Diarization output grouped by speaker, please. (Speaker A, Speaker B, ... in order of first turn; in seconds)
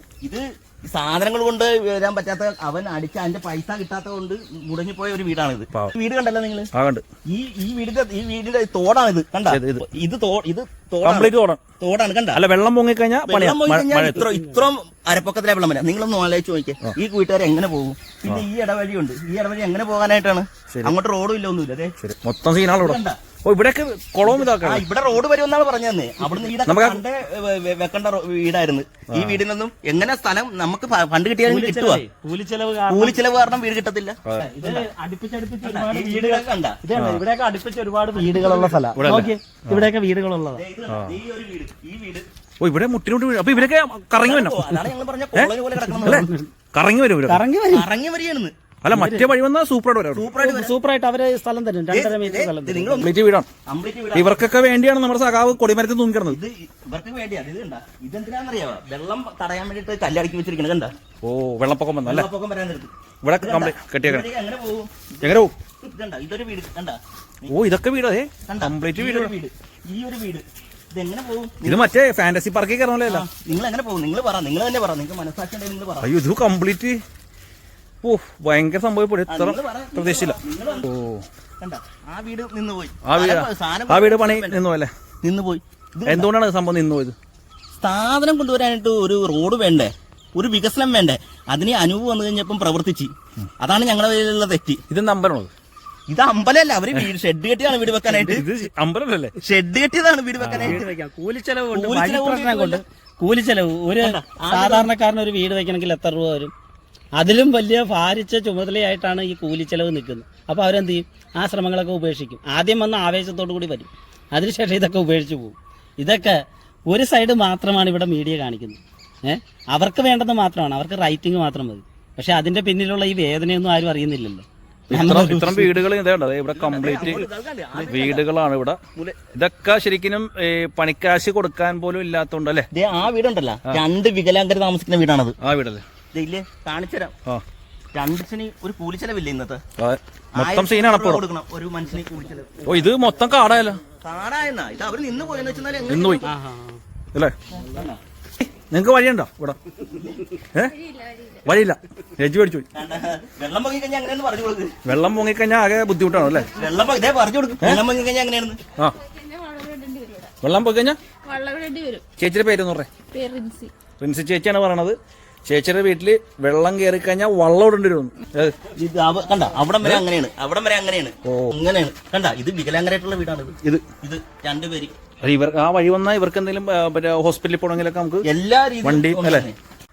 Speaker A: 0.2-6.7, 7.3-12.4, 13.2-21.9, 22.7-23.2, 24.2-32.0, 32.9-34.9, 35.6-36.8, 38.3-38.9, 40.5-42.2, 44.2-46.2, 47.7-48.5, 50.1-50.7, 51.9-53.1, 53.7-54.4, 56.3-60.9, 62.0-67.5, 68.5-71.8, 73.1-76.1, 79.3-80.9, 81.6-84.6, 85.2-86.3, 87.7-94.8, 96.1-98.4, 99.4-100.8, 101.7-102.8, 104.0-104.9, 126.5-128.2, 132.7-135.3, 136.1-137.1, 137.9-139.6, 140.3-142.9, 144.0-146.2, 147.5-148.0, 152.7-154.8, 156.5-158.6, 168.7-174.9, 178.2-179.5
Speaker B: 6.7-7.0, 9.5-9.8, 11.0-11.6, 12.3-14.3, 22.0-24.8, 26.6-27.0, 29.1-29.4, 36.9-37.2, 39.0-39.9, 40.9-41.2, 42.6-44.6, 46.0-47.4, 48.8-50.3, 53.0-53.5, 54.1-56.4, 61.2-62.3, 63.2-64.3, 65.2-65.5, 67.5-69.3, 71.6-73.3, 76.0-77.0, 78.0-81.2, 83.0-84.9, 86.0-87.1, 94.9-95.5, 98.2-99.3, 100.4-100.8, 124.9-128.8, 129.3-132.7, 135.4-135.8, 139.8-141.2, 142.7-143.8, 145.9-146.2, 148.4-149.6, 150.5-150.8, 151.4-152.7, 154.8-156.5, 160.4-161.0, 162.2-162.9, 164.0-168.6, 171.2-171.5, 175.2-178.2, 178.8-179.5
Speaker C: 31.4-33.2, 34.4-40.6, 45.9-46.5, 47.3-47.9, 48.9-49.3, 50.4-53.0, 100.5-106.5, 107.2-125.7, 146.2-146.8
Speaker D: 150.8-151.4, 159.0-160.3, 161.2-162.0, 163.1-163.7